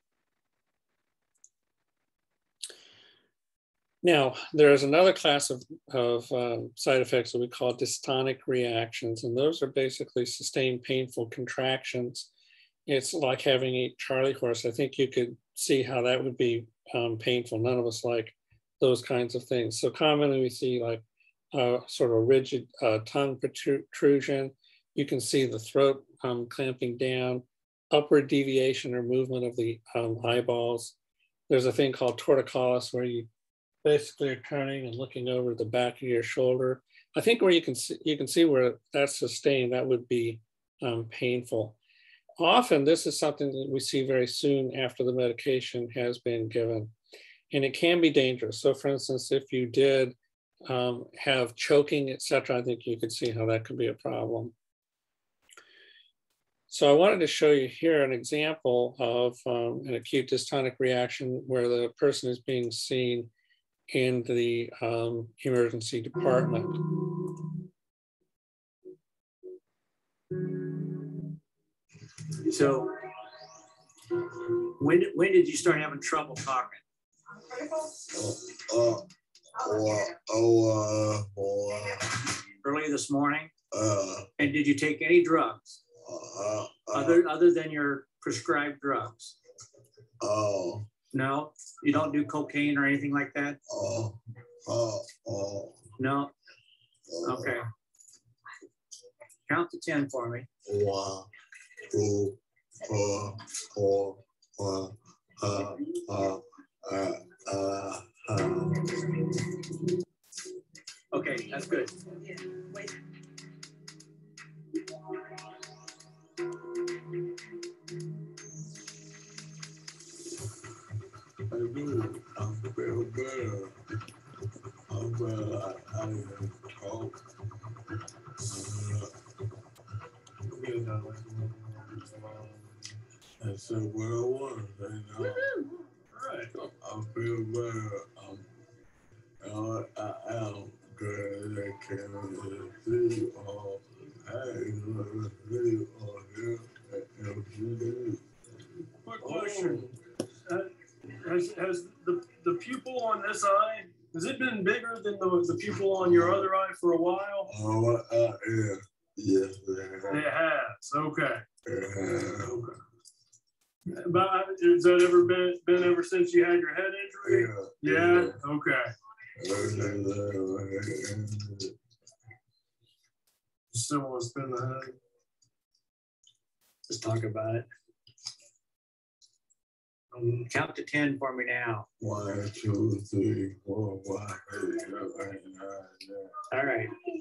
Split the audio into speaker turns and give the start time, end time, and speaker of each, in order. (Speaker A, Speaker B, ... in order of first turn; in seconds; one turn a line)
Speaker A: 4.0-12.3
Speaker A: 12.9-30.9
Speaker A: 31.5-33.3
Speaker A: 33.8-41.8
Speaker A: 42.4-46.9
Speaker A: 47.5-50.1
Speaker A: 50.6-54.5
Speaker A: 56.7-63.3
Speaker A: 63.9-66.8
Speaker B: 72.4-73.0
Speaker B: 74.8-76.8
Speaker C: 77.9-82.3
Speaker B: 82.6-83.5
Speaker C: 83.7-84.3
Speaker B: 84.4-85.8
Speaker C: 86.0-87.3
Speaker B: 86.9-89.3
Speaker C: 90.2-90.9
Speaker B: 91.1-93.6
Speaker C: 93.7-95.9
Speaker B: 96.0-96.3
Speaker C: 97.1-97.6
Speaker B: 97.2-97.6
Speaker B: 99.5-100.5
Speaker C: 100.7-101.3
Speaker C: 101.8-109.4
Speaker B: 111.1-112.0
Speaker C: 121.5-123.8
Speaker C: 124.9-127.2
Speaker C: 128.4-129.1
Speaker C: 130.5-132.8
Speaker C: 133.4-135.5
Speaker D: 136.1-136.5
Speaker C: 136.8-138.4
Speaker C: 139.4-148.2
Speaker D: 149.0-149.8
Speaker C: 149.2-149.9
Speaker D: 151.2-157.5
Speaker C: 156.0-156.5
Speaker C: 157.5-160.3
Speaker D: 160.1-161.4
Speaker C: 161.7-162.6
Speaker D: 162.4-162.7
Speaker D: 163.9-168.8
Speaker C: 167.2-168.4
Speaker C: 169.4-171.7
Speaker D: 169.5-170.0
Speaker D: 173.7-174.7
Speaker B: 176.9-177.7
Speaker B: 180.5-181.9
Speaker C: 182.0-186.4
Speaker B: 186.5-186.9